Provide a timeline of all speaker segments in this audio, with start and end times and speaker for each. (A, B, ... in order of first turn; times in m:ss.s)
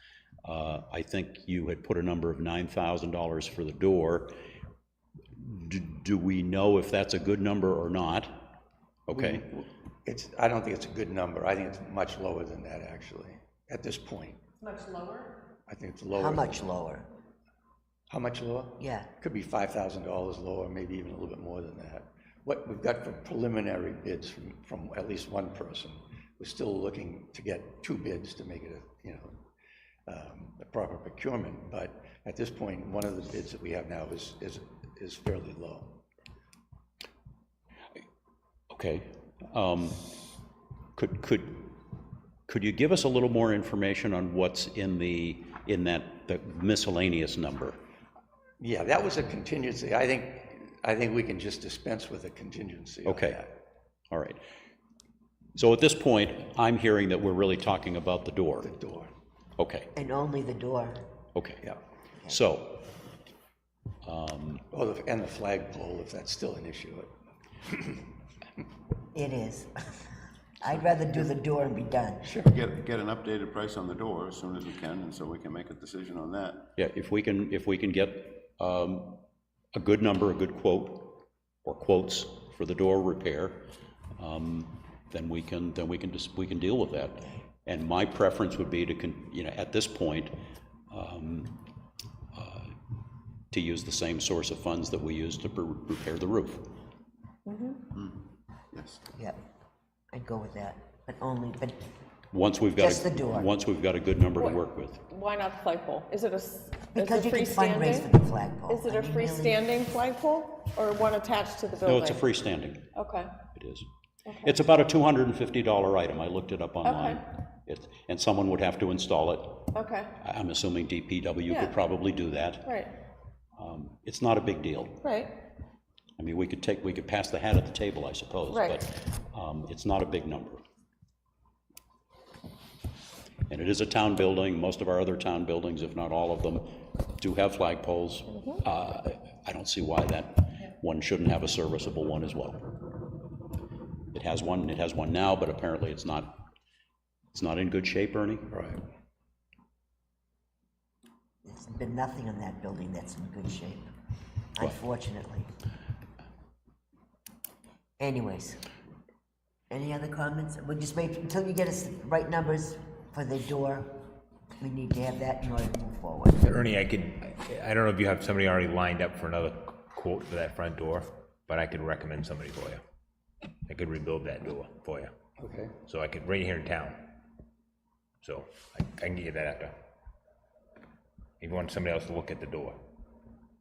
0:00.4-0:04.3 A
0:05.3-0:08.4 A
0:09.1-0:09.4 A
0:09.1-0:14.4 B
0:14.6-0:15.3 C
0:15.7-0:16.6 B
0:16.1-0:17.1 D
0:18.1-0:29.4 B
0:18.8-0:19.1 D
0:30.0-0:36.0 B
0:38.7-0:40.2 A
0:40.9-0:41.8 A
0:42.5-0:47.8 A
0:48.6-0:53.5 B
0:53.0-0:53.4 A
0:54.1-0:54.4 A
0:55.6-0:58.7 A
0:58.6-0:59.1 B
0:59.6-0:59.9 A
1:00.0-1:01.0 D
1:01.3-1:01.6 A
1:02.3-1:02.9 A
1:04.0-1:04.6 A
1:04.7-1:07.1 B
1:07.6-1:08.0 B
1:09.1-1:10.0 D
1:10.6-1:12.3 D
1:12.2-1:12.6 B
1:12.5-1:16.6 E
1:16.8-1:19.2 A
1:19.7-1:31.6 A
1:32.3-1:32.7 A
1:33.5-1:36.6 A
1:37.4-1:37.8 C
1:40.1-1:41.8 D
1:42.3-1:45.0 A
1:42.8-1:43.5 D
1:44.4-1:48.1 C
1:46.9-1:49.6 D
1:48.7-1:52.2 C
1:51.8-1:52.9 A
1:52.9-1:53.3 C
1:53.5-1:53.8 A
1:54.2-1:54.5 C
1:54.4-2:02.7 A
1:56.8-1:57.2 C
1:59.7-2:00.1 C
2:01.5-2:01.7 C
2:02.6-2:02.9 C
2:03.6-2:05.0 A
2:05.0-2:05.3 C
2:06.2-2:10.6 A
2:08.5-2:08.8 C
2:13.5-2:22.7 A
2:24.1-2:26.4 A
2:27.3-2:28.5 A
2:28.5-2:28.8 B
2:31.4-2:33.9 D
2:34.5-2:35.5 D
2:38.0-2:38.6 D
2:39.7-2:44.0 D
2:44.6-2:46.4 D
2:46.4-2:52.8 F
2:53.7-2:55.1 F
2:55.4-2:55.8 B
2:55.8-2:57.1 F
2:58.2-2:59.7 F
3:01.4-3:02.8 F